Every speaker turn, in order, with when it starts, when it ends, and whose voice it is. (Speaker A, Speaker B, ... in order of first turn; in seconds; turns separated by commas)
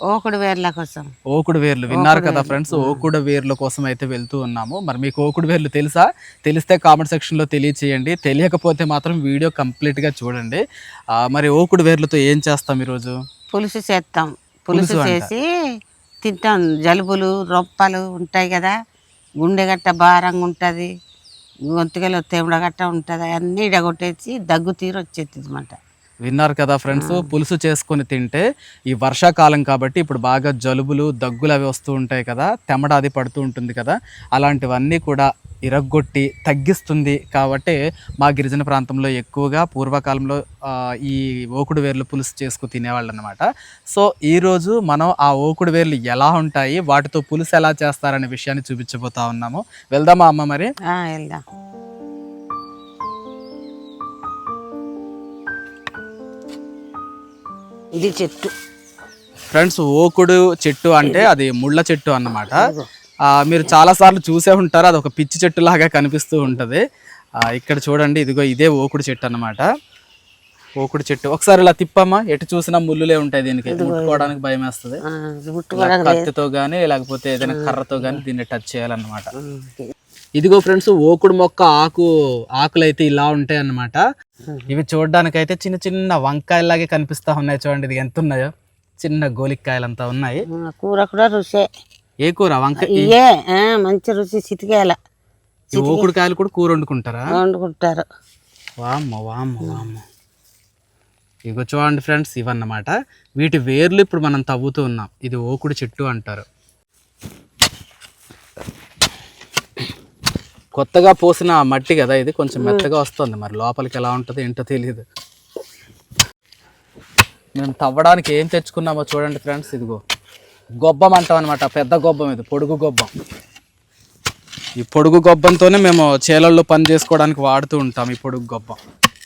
Speaker A: 0.1-1.1, Speaker B: 1.3-13.2, Speaker A: 1.9-3.0, Speaker A: 13.5-15.4, Speaker B: 14.7-15.3, Speaker A: 16.2-18.7, Speaker A: 19.4-20.9, Speaker A: 21.7-25.8, Speaker B: 26.2-50.7, Speaker A: 26.9-27.3, Speaker A: 50.9-51.4, Speaker A: 58.0-58.5, Speaker B: 59.5-62.7, Speaker A: 61.0-61.3, Speaker A: 62.5-62.9, Speaker B: 63.3-66.8, Speaker B: 67.4-69.7, Speaker B: 70.8-75.0, Speaker A: 73.7-74.3, Speaker A: 75.0-76.3, Speaker B: 75.7-79.3, Speaker A: 77.4-78.2, Speaker A: 79.3-79.9, Speaker B: 80.4-84.0, Speaker B: 84.7-90.4, Speaker A: 90.5-91.7, Speaker B: 92.2-93.1, Speaker A: 92.8-95.0, Speaker A: 95.7-96.1, Speaker B: 95.7-97.3, Speaker A: 97.3-98.0, Speaker B: 98.8-100.0, Speaker B: 101.5-106.5, Speaker B: 110.8-115.0, Speaker A: 112.6-112.9, Speaker B: 117.5-120.0, Speaker B: 120.8-123.1, Speaker B: 124.8-128.8